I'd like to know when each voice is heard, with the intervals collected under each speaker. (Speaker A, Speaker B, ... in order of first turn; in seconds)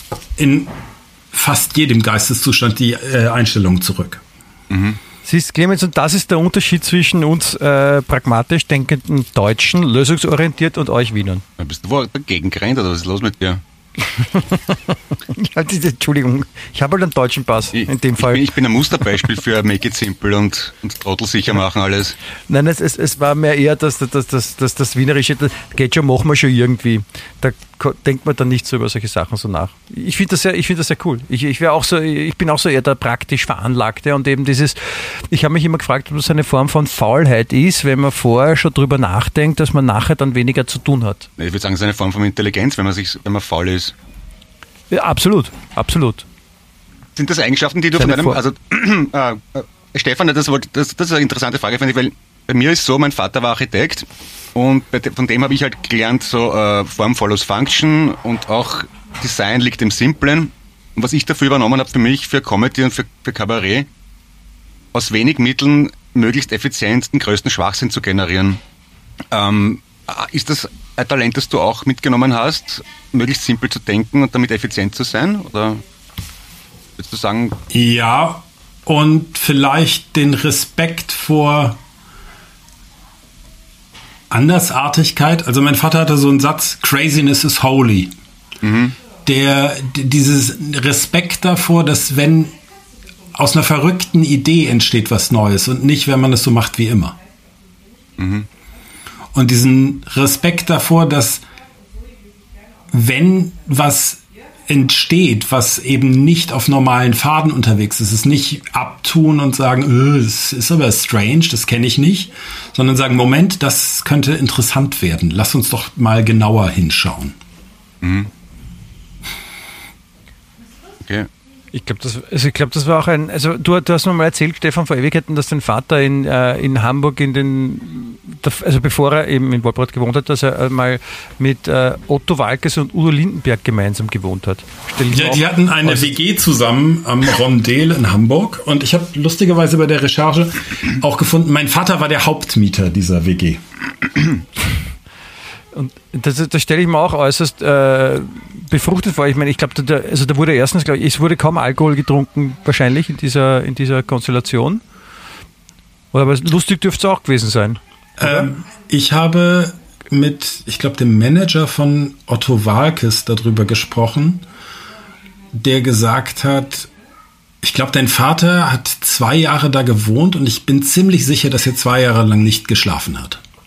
Speaker A: 0.4-0.7, 1.3-4.2, 77.7-81.8, 84.3-88.1, 89.2-92.5, 93.3-97.2, 99.3-101.4, 102.9-117.4, 135.1-143.6, 158.2-164.4, 165.5-166.9, 167.6-173.4
Speaker B: 4.7-5.0, 11.6-13.6, 17.7-22.1, 41.4-43.9, 47.1-63.9, 64.9-68.6, 69.3-75.8, 77.0-77.6, 88.6-88.9, 98.2-98.5, 118.0-118.3
Speaker C: 5.2-11.4, 14.1-18.4, 22.5-41.3, 44.9-46.2, 48.0-48.4, 121.7-136.1, 145.7-154.8, 156.1-158.5